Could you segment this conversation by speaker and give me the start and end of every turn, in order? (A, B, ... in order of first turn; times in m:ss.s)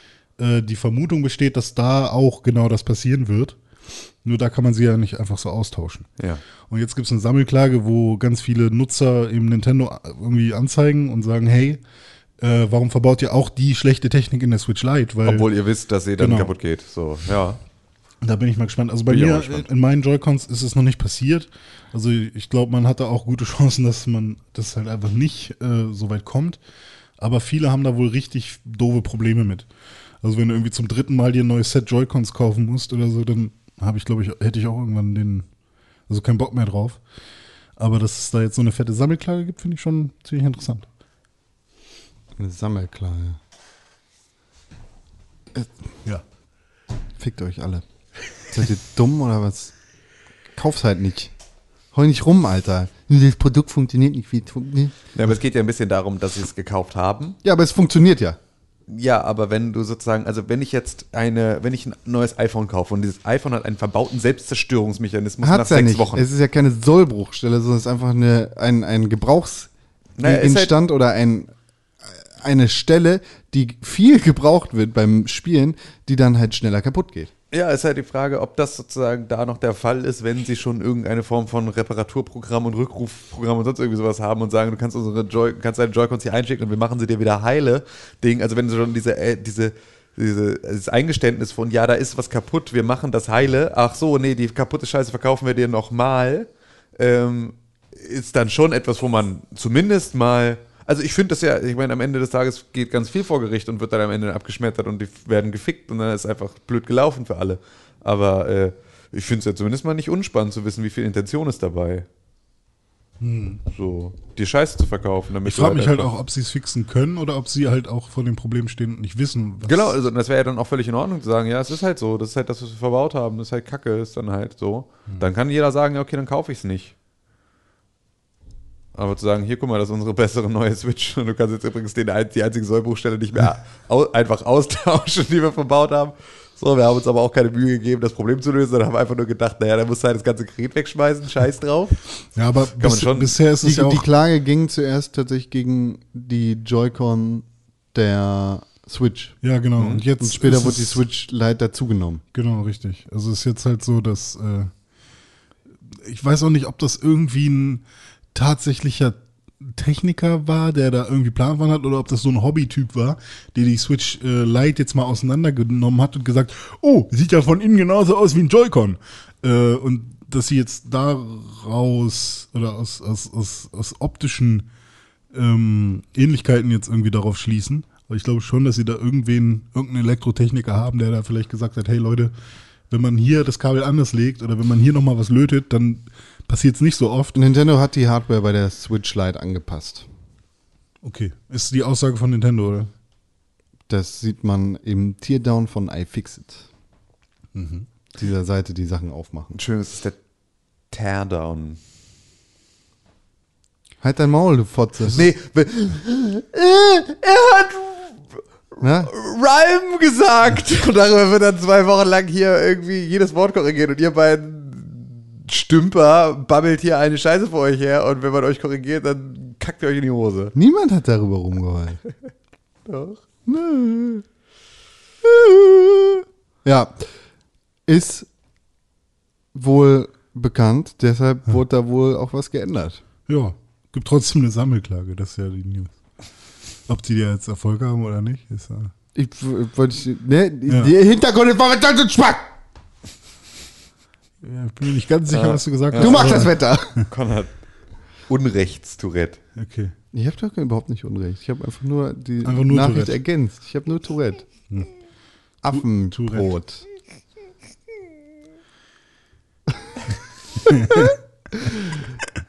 0:00.4-0:03.6 A
0:04.2-0:06.1 A
0:06.7-0:11.8 A
0:12.4-0:15.5 A
0:15.2-0:17.6 B
0:16.2-0:16.5 A
0:18.2-0:26.6 A
0:19.1-0:19.7 B
0:27.2-0:29.7 A
0:30.2-0:35.5 A
0:36.1-0:37.0 A
0:37.8-0:40.9 A
0:42.4-0:43.4 C
0:47.2-0:47.8 C
0:48.5-0:49.7 C
0:50.5-0:51.3 C
0:51.9-0:54.9 C
0:55.1-0:57.4 B
0:57.4-0:58.4 C
0:58.9-1:06.3 B
1:05.4-1:09.7 C
1:10.2-1:10.7 B
1:10.2-1:11.5 C
1:12.1-1:17.3 C
1:17.5-1:52.1 B
1:53.2-1:53.6 A
1:53.7-1:56.1 B
1:55.4-2:00.0 A
1:59.6-2:06.9 B
2:08.9-2:22.0 B
2:22.3-2:24.1 A
2:22.8-2:23.3 B
2:23.6-2:29.4 C
2:29.4-2:31.0 A
2:29.8-2:30.0 B
2:30.2-2:32.2 C
2:32.3-2:34.7 A
2:35.9-2:54.7 A
2:55.3-3:02.3 A
3:02.9-3:07.4 A
3:07.3-3:10.1 C
3:11.0-3:12.9 A
3:13.9-3:16.7 C
3:17.5-3:17.9 A
3:18.2-3:19.6 C
3:19.5-3:20.2 B
3:20.9-3:21.8 B
3:24.0-3:25.2 C
3:25.1-3:28.2 B
3:28.8-3:40.5 B
3:28.8-3:29.1 C
3:40.5-3:42.0 C
3:42.8-3:43.2 B
3:43.4-3:44.2 C
3:45.3-3:46.1 C
3:46.6-3:47.0 C
3:47.9-3:48.3 C
3:49.5-3:53.0 C
3:53.3-3:55.9 A
3:56.9-3:58.9 A
3:59.1-4:02.5 C
4:00.7-4:00.9 A
4:04.4-4:06.5 A
4:05.3-4:07.5 B
4:06.0-4:07.0 C
4:08.3-4:09.4 B
4:09.6-4:09.9 A
4:10.1-4:14.5 C
4:12.4-4:13.2 A
4:15.6-4:16.8 C
4:15.7-4:16.5 A
4:20.6-4:21.1 A
4:20.9-4:22.0 C